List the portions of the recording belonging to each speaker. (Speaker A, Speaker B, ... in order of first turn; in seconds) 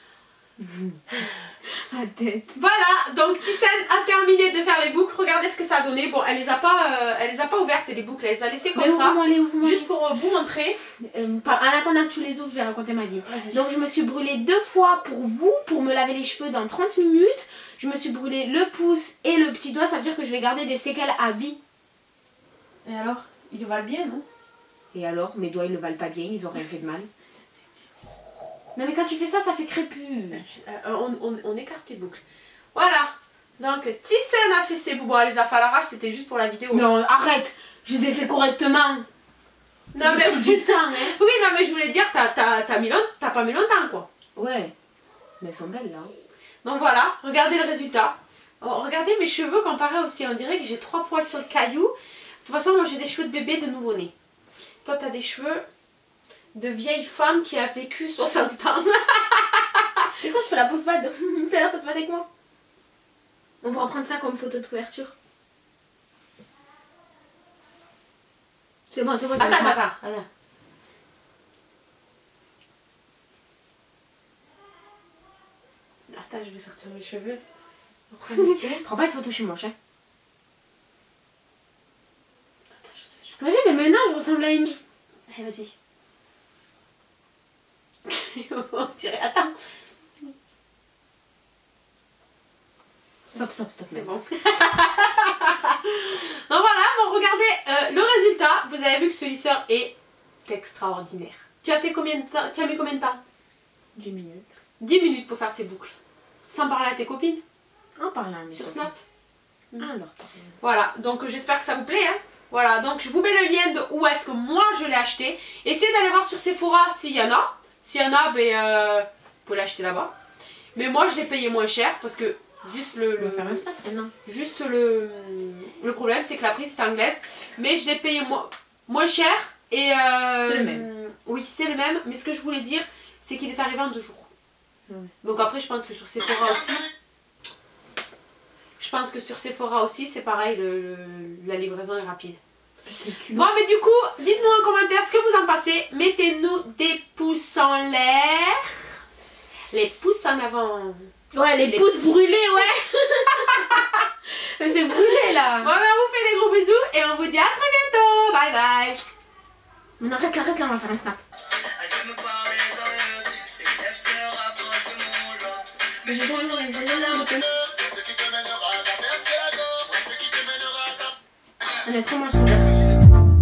Speaker A: 0.6-2.6, 8.7-9.9, 11.0-21.6, 24.9-27.1, 28.7-30.4, 36.7-39.1, 40.0-41.1, 44.4-44.7, 45.4-46.1, 60.2-62.2, 63.6-65.1, 68.9-69.8, 78.3-79.7, 83.4-84.8, 93.3-94.1, 104.0-104.5, 108.0-108.9, 109.8-110.5, 123.2-124.1, 130.4-130.8, 142.8-143.5, 151.3-155.7, 160.0-161.2, 166.0-167.4, 171.8-172.8
Speaker B: 2.5-10.8, 13.2-13.6, 22.8-24.2, 30.3-32.2, 32.7-36.9, 39.9-44.1, 46.6-51.9, 52.4-54.1, 54.8-55.6, 56.5-60.1, 69.3-70.2, 76.1-77.4, 78.1-78.8, 82.8-83.4, 85.3-85.7, 88.0-89.5, 93.9-99.9, 100.5-103.2, 104.8-105.9, 106.5-107.4, 108.5-109.0, 110.6-120.1, 120.7-123.6, 124.2-134.3, 135.2-136.9, 138.8-142.4, 143.3-148.8, 149.7-152.1, 153.4-153.9, 154.9-159.0
Speaker C: 161.8-167.2, 167.9-170.9